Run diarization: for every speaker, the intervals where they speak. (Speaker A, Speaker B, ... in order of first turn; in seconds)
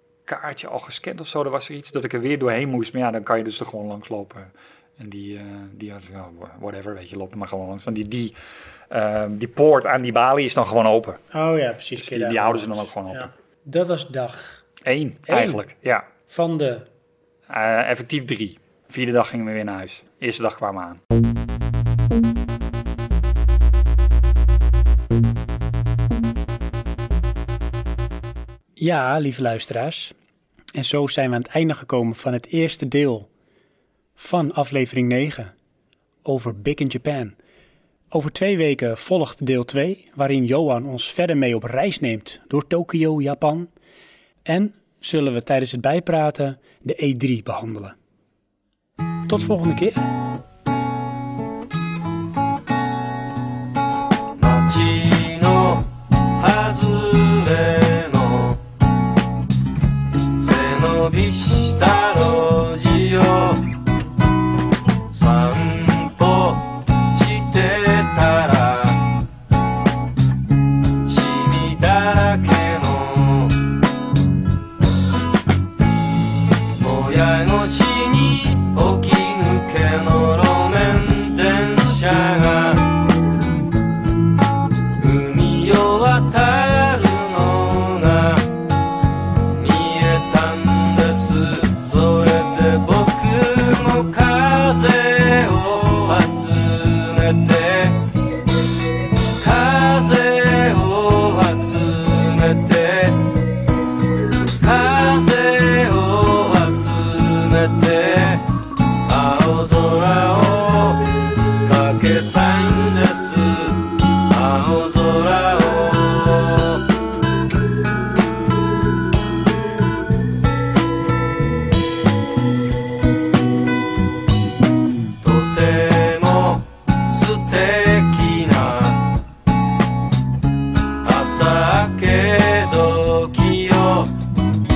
Speaker A: 0.2-8.3, 8.9-11.2, 12.0-13.3, 14.8-16.1, 17.5-21.0
Speaker B: 11.3-14.6, 15.3-15.6, 16.3-16.9, 28.8-30.1, 30.7-33.3, 34.2-35.5, 36.2-37.4, 38.1-43.7, 44.4-48.0, 49.3-50.0
Speaker C: 54.4-58.6, 60.4-63.6, 65.1-69.2, 71.0-73.6, 76.7-82.9, 85.0-88.5, 89.5-98.0, 99.3-103.3, 104.5-108.4, 109.0-111.1, 111.6-116.9, 125.2-129.1, 131.0-134.1